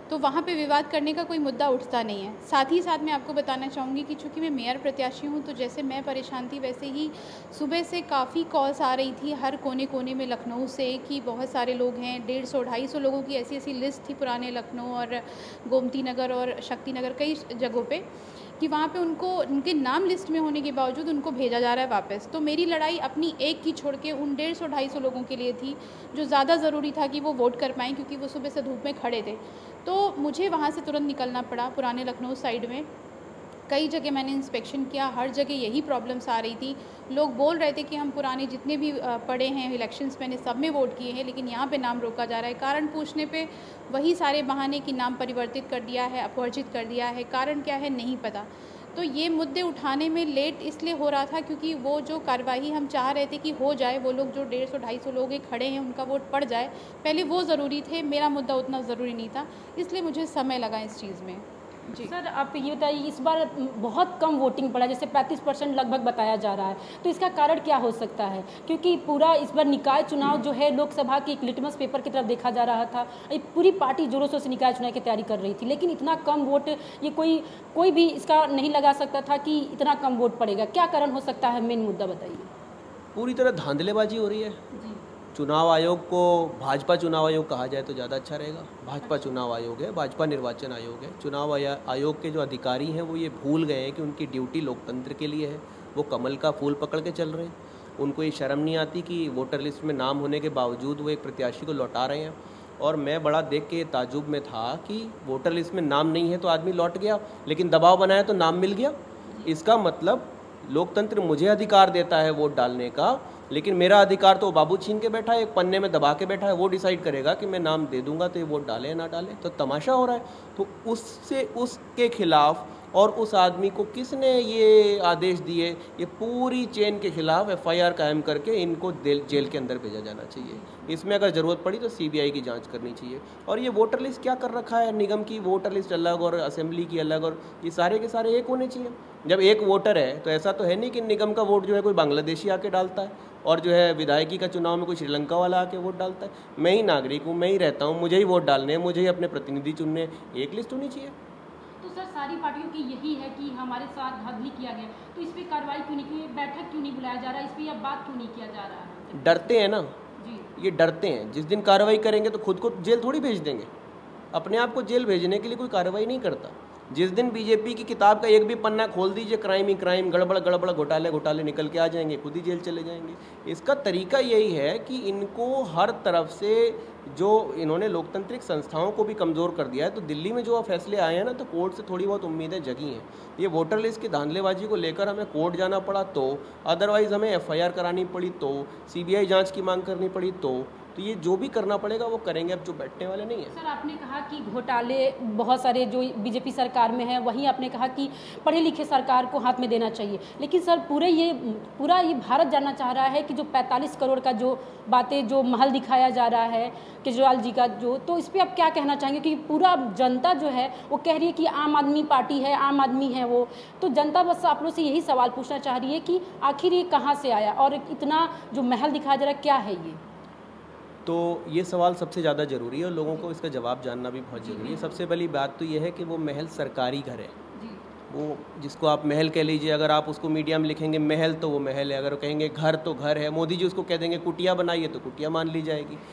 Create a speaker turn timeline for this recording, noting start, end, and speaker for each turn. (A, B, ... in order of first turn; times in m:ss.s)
0:00.1-0:18.0 A
0:18.6-0:32.9 A
0:33.7-1:02.1 A
1:02.0-1:22.5 B
1:23.2-1:24.6 C
1:24.7-1:25.0 B
1:25.3-2:31.2 C
1:29.0-1:29.3 B
2:10.4-2:10.8 B
2:31.8-2:39.6 B
2:39.2-2:39.9 C
2:40.2-2:40.5 B
2:40.6-2:43.7 C
2:44.3-3:13.5 C
3:13.5-3:40.0 B
3:41.0-3:47.3 C
3:44.4-3:45.0 B
3:47.6-3:47.8 B
3:48.1-3:56.0 C